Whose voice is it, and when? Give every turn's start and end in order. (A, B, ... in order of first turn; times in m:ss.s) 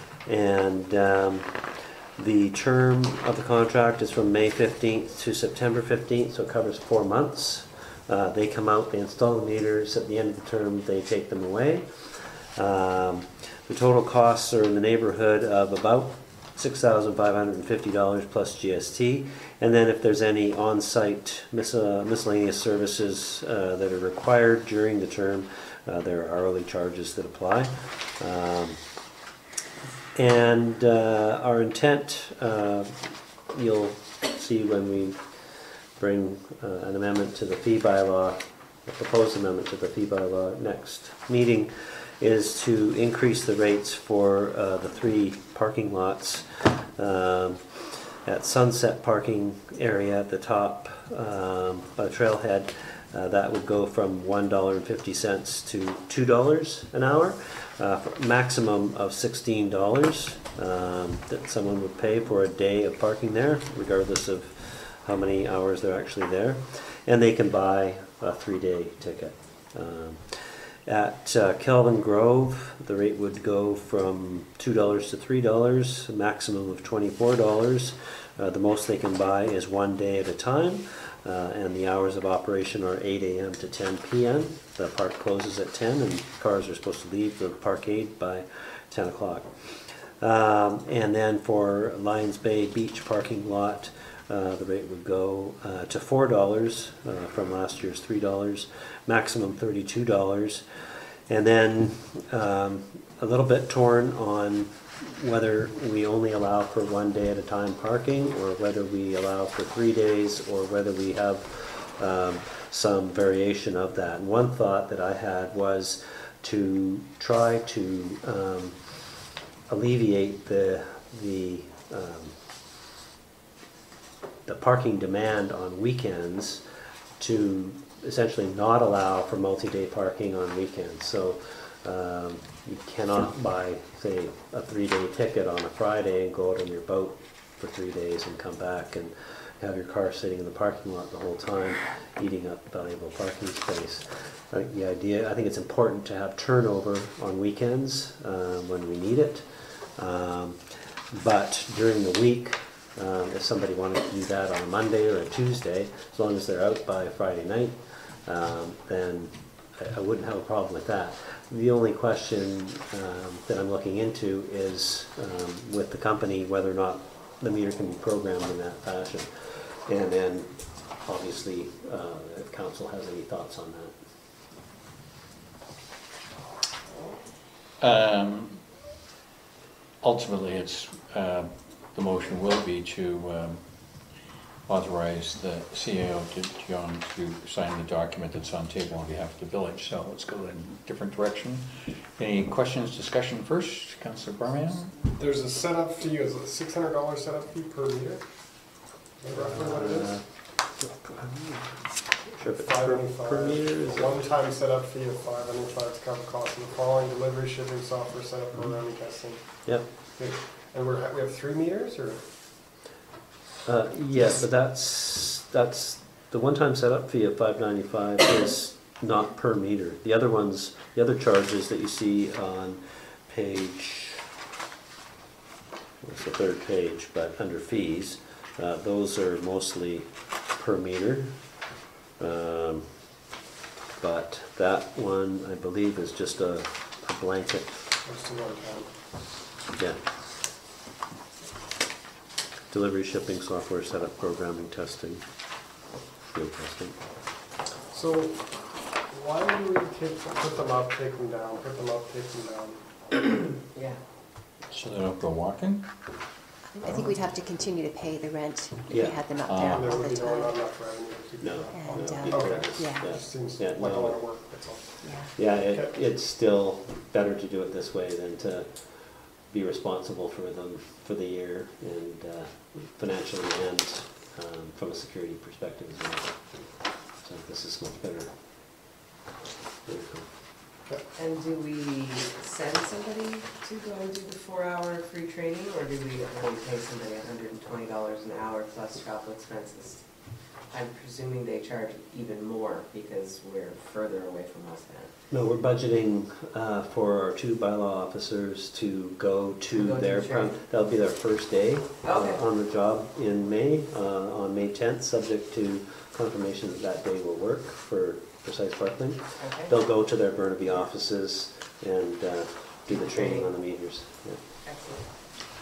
0:00.2-0:28.9 A
0:30.1-1:59.1 A
1:59.7-2:02.4 A
2:04.4-2:06.7 A
2:07.2-2:54.1 A
2:57.8-2:58.8 B
3:00.0-3:03.6 B
3:04.6-3:14.9 B
3:15.0-3:20.2 C
3:19.2-3:24.3 A
3:22.5-3:32.3 C
3:33.6-3:44.2 A
3:46.0-3:51.6 A
3:52.2-3:53.2 A
3:54.0-3:57.8 A
3:58.0-3:59.1 C
3:59.7-4:00.0 A
4:02.7-4:05.2 A
4:06.2-4:07.0 A
4:07.9-4:13.5 C
4:13.7-4:14.0 D
4:14.7-4:15.9 B
4:16.7-4:20.5 E
4:18.9-4:19.2 A
4:19.4-4:19.9 B
4:19.6-4:25.9 C
4:21.4-4:24.2 A
4:21.7-4:23.1 E
4:25.0-4:25.3 E
4:25.3-4:38.8 A
4:39.8-4:40.3 A
4:41.1-4:55.1 D
4:55.3-5:14.4 A
4:59.7-5:00.6 D
5:02.0-5:02.4 D
5:09.4-5:09.7 D
5:12.9-5:13.5 D
5:14.6-5:15.1 D